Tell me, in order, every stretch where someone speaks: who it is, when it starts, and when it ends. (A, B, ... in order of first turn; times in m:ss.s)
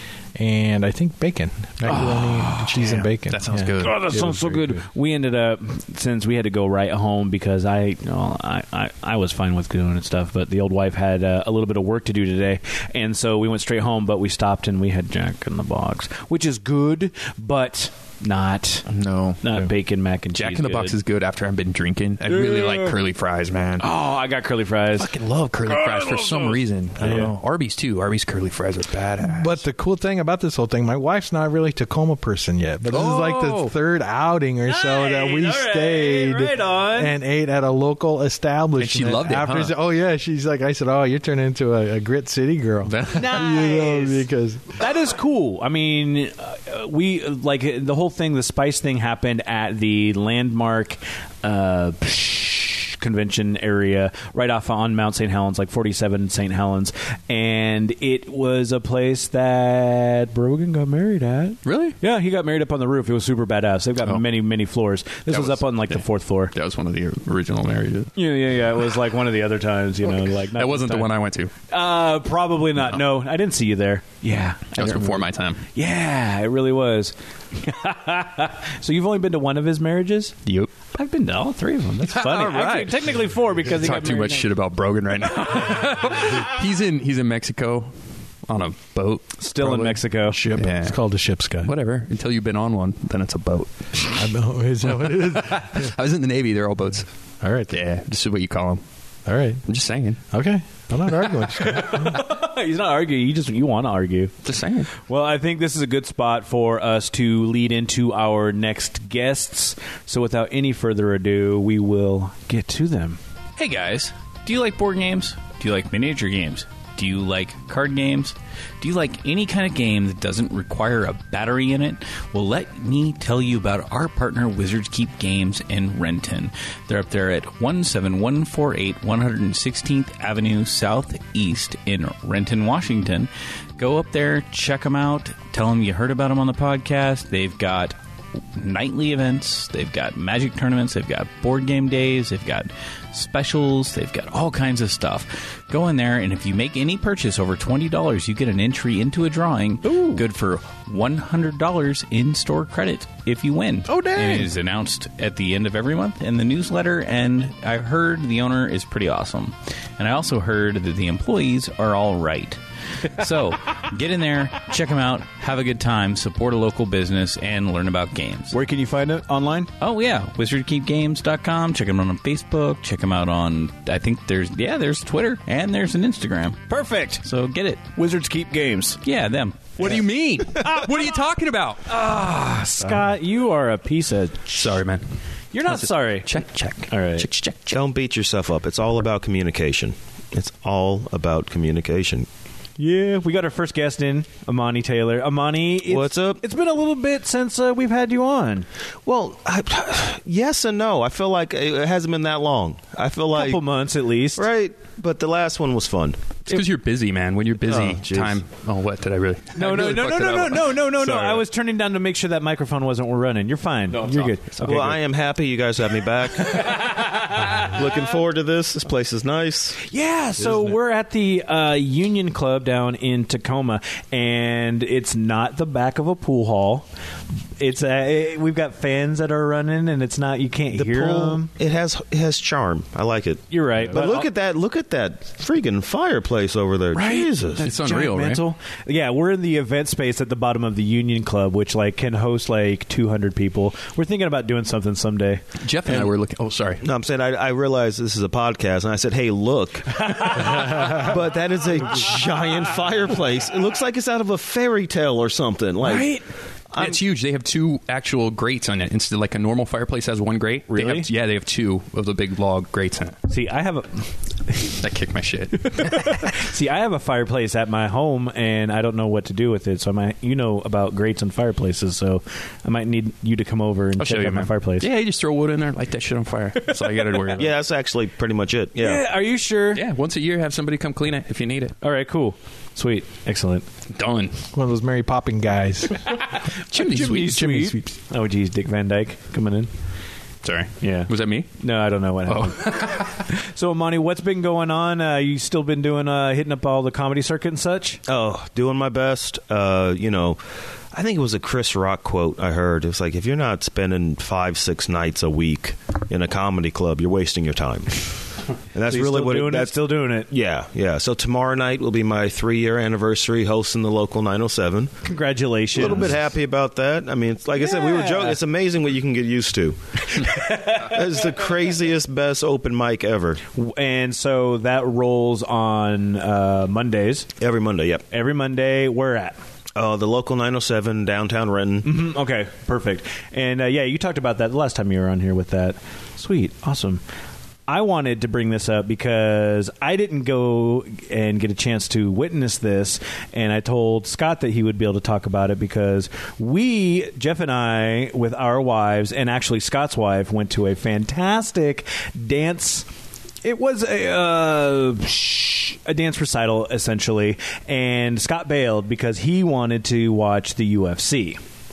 0:00.4-0:04.8 A
0:01.9-0:02.2 B
0:01.9-0:02.9 C
0:02.8-0:04.3 B
0:03.8-0:18.8 C
0:18.9-0:19.4 B
0:19.4-0:21.0 C
0:20.3-0:23.9 B
0:22.2-0:23.0 C
0:23.8-0:25.1 C
0:25.0-0:29.6 B
0:25.7-0:26.6 C
0:27.0-0:27.3 A
0:29.2-0:44.8 A
0:32.9-0:33.7 B
0:34.7-0:37.2 C
0:38.8-0:39.8 B
0:42.9-0:43.4 B
0:43.2-1:06.5 C
1:01.6-1:02.0 B
1:05.3-1:08.1 B
1:08.2-1:11.1 C
1:10.5-1:11.5 B
1:11.7-1:20.4 C
1:14.8-1:15.6 B
1:20.5-1:20.7 B
1:20.9-1:24.5 C
1:22.0-1:27.9 B
1:25.5-1:26.2 C
1:28.5-1:31.0 B
1:29.4-1:30.4 C
1:30.3-1:31.7 A
1:31.6-1:34.2 B
1:34.1-1:35.9 A
1:35.0-1:37.1 B
1:37.4-1:37.8 A
1:37.7-1:38.8 B
1:39.3-1:39.6 A
1:39.7-1:40.2 B
1:40.3-1:42.2 A
1:41.7-1:44.4 C
1:44.4-1:44.9 B
1:45.0-1:53.2 C
1:53.6-2:18.0 D
2:18.6-2:48.6 D
2:29.8-2:30.2 C
2:33.9-2:34.5 C
2:48.5-2:49.7 C
2:49.8-2:57.9 D
2:56.7-2:57.2 C
2:58.0-2:59.0 C
2:59.0-2:59.8 D
2:59.8-3:02.0 B
2:59.8-3:00.9 C
3:01.9-3:04.6 C
3:04.5-3:05.0 B
3:05.5-3:06.3 C
3:05.6-3:07.8 B
3:06.9-3:07.3 C
3:07.7-3:12.3 E
3:12.8-3:18.7 C
3:15.8-3:16.4 E
3:19.1-3:23.6 E
3:23.3-3:24.5 C
3:24.4-3:26.4 E
3:26.5-3:31.4 B
3:27.7-3:28.4 E
3:29.6-3:35.0 C
3:33.9-3:35.0 B
3:34.6-3:37.0 E
3:36.5-3:37.8 C
3:37.6-3:39.8 E
3:39.8-3:46.9 C
3:47.6-3:51.5 C
3:50.7-3:57.6 E
3:53.5-3:54.3 C
3:56.9-4:05.4 C
3:57.6-3:58.4 B
4:05.6-4:06.8 B
4:06.8-4:16.1 E
4:10.0-4:11.1 C
4:15.8-4:16.2 C
4:16.7-4:17.0 E
4:16.8-4:23.2 B
4:20.7-4:21.1 C
4:23.3-4:24.8 C
4:24.8-4:26.2 B
4:25.6-4:34.9 C
4:34.0-4:37.5 B
4:37.3-4:39.0 E
4:38.8-4:39.8 C
4:39.7-4:41.8 B
4:41.8-4:43.6 C
4:43.9-4:44.4 B
4:44.5-4:46.1 A
4:46.5-4:47.6 B
4:46.8-4:49.7 C
4:47.2-4:47.8 A
4:50.4-4:51.5 B
4:50.8-4:58.0 C
4:52.3-4:53.3 B
4:58.1-5:00.4 E
5:00.9-5:08.0 E
5:08.7-5:15.0 E
5:08.9-5:10.3 C
5:15.0-5:16.2 C
5:15.7-5:23.4 E
5:17.6-5:18.4 C
5:20.2-5:21.0 C
5:23.6-5:27.3 C
5:27.4-5:28.1 E
5:28.1-5:29.4 C
5:29.8-5:32.0 E
5:31.8-5:37.0 C
5:37.7-5:52.9 C
5:53.4-6:01.4 C